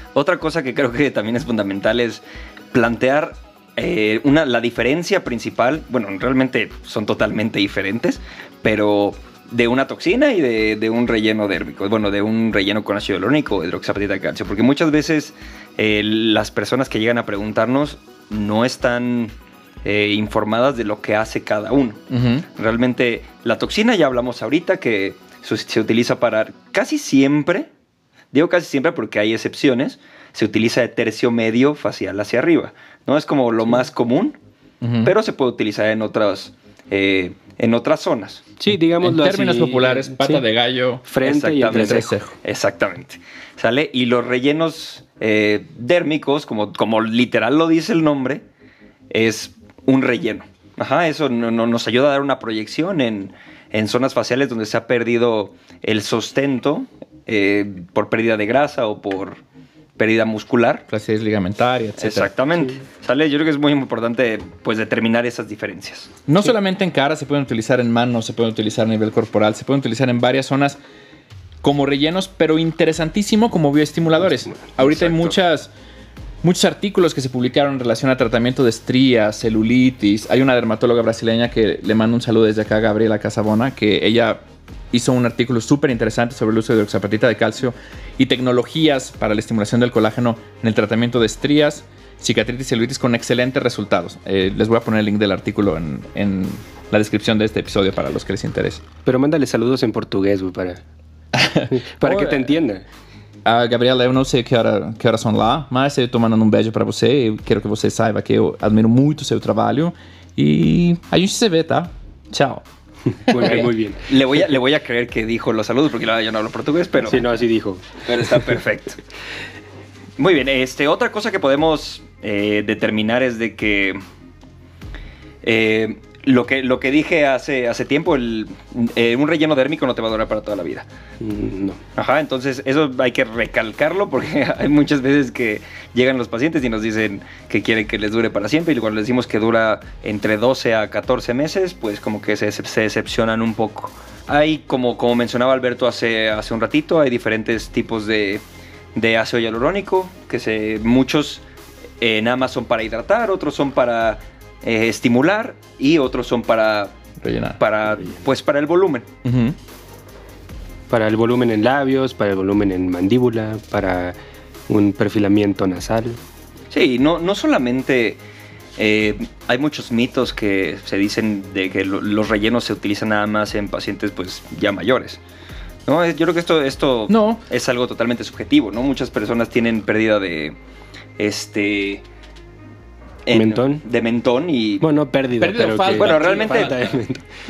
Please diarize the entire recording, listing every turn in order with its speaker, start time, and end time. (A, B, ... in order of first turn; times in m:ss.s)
0:00.2-0:19.3 A
0:19.8-0:22.0 A
0:22.1-0:22.5 B
0:22.6-0:27.7 A
0:28.3-0:34.4 A
0:34.8-0:35.1 B
0:35.0-0:38.5 A
0:38.6-0:40.4 C
0:39.0-0:41.1 B
0:41.1-0:42.1 C
0:41.2-0:48.4 A
0:41.6-0:42.3 B
0:49.1-0:59.4 A
1:00.0-1:00.8 A
1:00.9-1:02.3 B
1:02.0-1:06.1 A
1:06.3-1:10.8 B
1:11.6-1:15.7 B
1:14.8-1:15.4 A
1:16.4-1:38.8 B
1:39.0-1:40.8 C
1:41.3-1:42.5 B
1:41.7-1:42.9 C
1:43.4-1:52.6 B
1:53.3-1:53.7 B
1:53.3-1:54.1 C
1:53.5-1:57.3 A
1:57.1-1:58.0 C
1:58.0-1:59.0 A
2:00.2-2:04.0 A
2:05.4-2:10.8 A
2:11.2-2:11.8 C
2:12.0-2:28.4 A
2:29.0-2:31.4 A
2:32.0-2:37.0 A
2:37.2-2:37.6 B
2:37.6-2:39.1 A
2:39.2-2:39.6 B
2:40.9-2:44.2 C
2:44.7-2:46.2 C
2:46.7-2:48.2 A
2:48.8-2:55.2 A
2:55.9-3:00.6 A
2:57.1-2:57.4 B
3:01.2-3:02.0 A
3:03.3-3:04.8 A
3:03.3-3:03.8 C
3:04.8-3:07.2 C
3:05.4-3:07.0 B
3:05.9-3:06.8 A